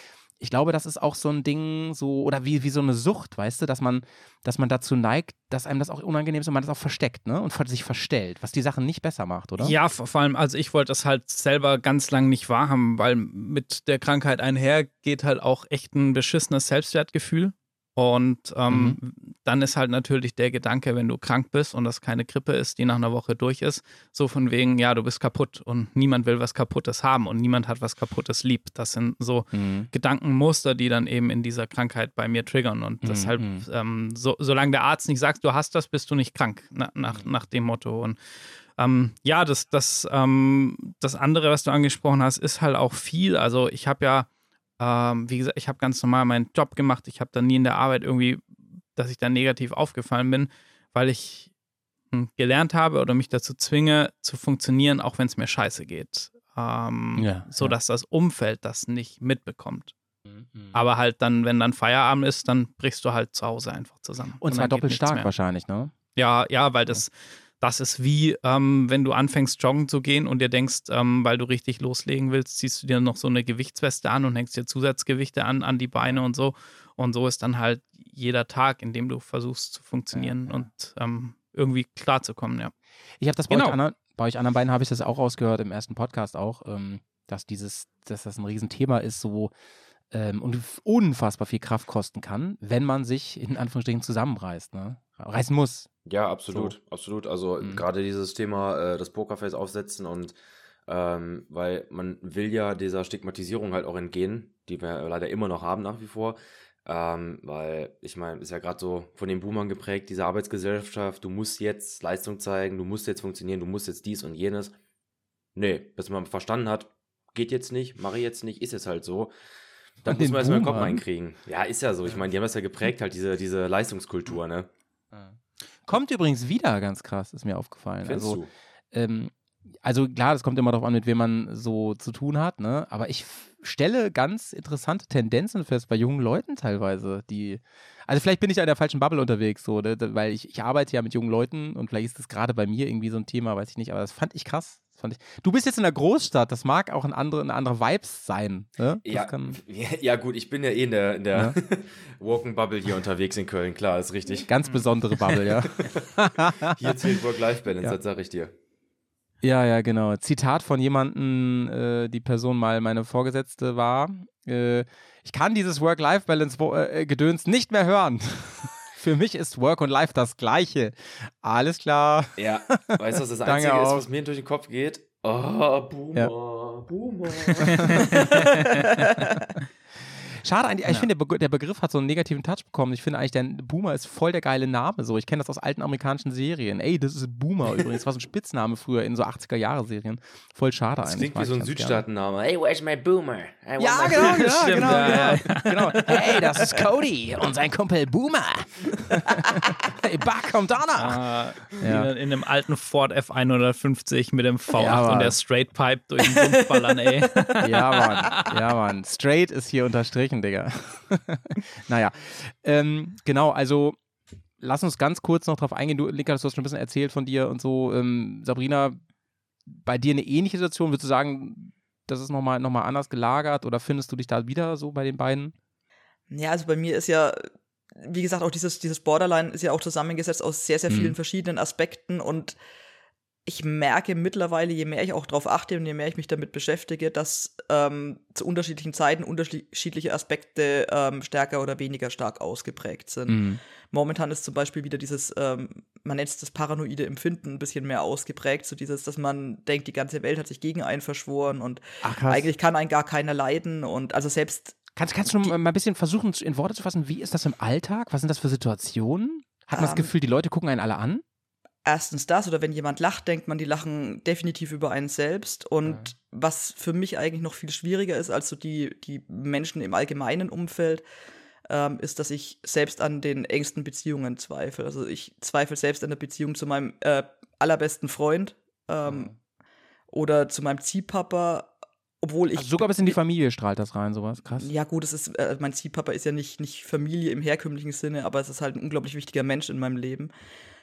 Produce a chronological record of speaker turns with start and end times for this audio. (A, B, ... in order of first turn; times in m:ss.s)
0:00.4-0:09.8 A
0:09.6-0:38.2 B
0:18.7-0:19.0 A
0:29.5-0:29.9 A
0:33.0-0:33.6 A
0:38.8-0:44.3 B
0:44.8-0:48.4 B
0:49.0-0:51.5 B
0:52.1-0:59.9 B
0:57.2-0:57.8 A
1:00.3-1:00.7 A
1:00.7-1:05.3 B
1:04.4-1:05.9 A
1:06.2-1:22.7 B
1:20.1-1:20.7 A
1:23.2-1:29.5 A
1:23.5-1:23.8 B
1:30.1-1:35.9 A
1:36.0-1:40.3 C
1:40.9-1:54.7 C
1:55.6-1:59.3 C
2:00.0-2:04.7 C
2:00.0-2:01.0 A
2:05.1-2:08.4 A
2:08.0-2:08.5 C
2:08.9-2:29.6 A
2:29.0-2:34.5 C
2:34.5-2:37.1 A
2:35.2-2:38.5 C
2:39.4-2:54.1 A
2:52.4-2:59.0 C
2:57.6-2:58.2 B
2:57.8-2:59.3 A
3:00.3-3:12.0 A
3:11.0-3:16.3 C
3:13.8-3:21.2 A
3:14.1-3:16.4 B
3:21.0-3:28.5 B
3:21.8-3:22.1 A
3:24.7-3:25.4 A
3:27.6-3:34.0 A
3:34.6-3:39.0 A
3:39.7-3:45.5 A
3:46.3-3:52.6 D
3:50.9-3:51.1 A
3:53.4-4:14.8 D
4:03.3-4:03.6 A
4:12.0-4:12.5 A
4:15.0-4:21.2 A
4:19.7-4:20.1 D
4:21.8-4:31.0 D
4:31.7-4:39.3 D
4:39.0-4:39.3 A
4:40.1-4:43.2 D
4:42.6-4:44.7 A
4:44.6-4:50.3 D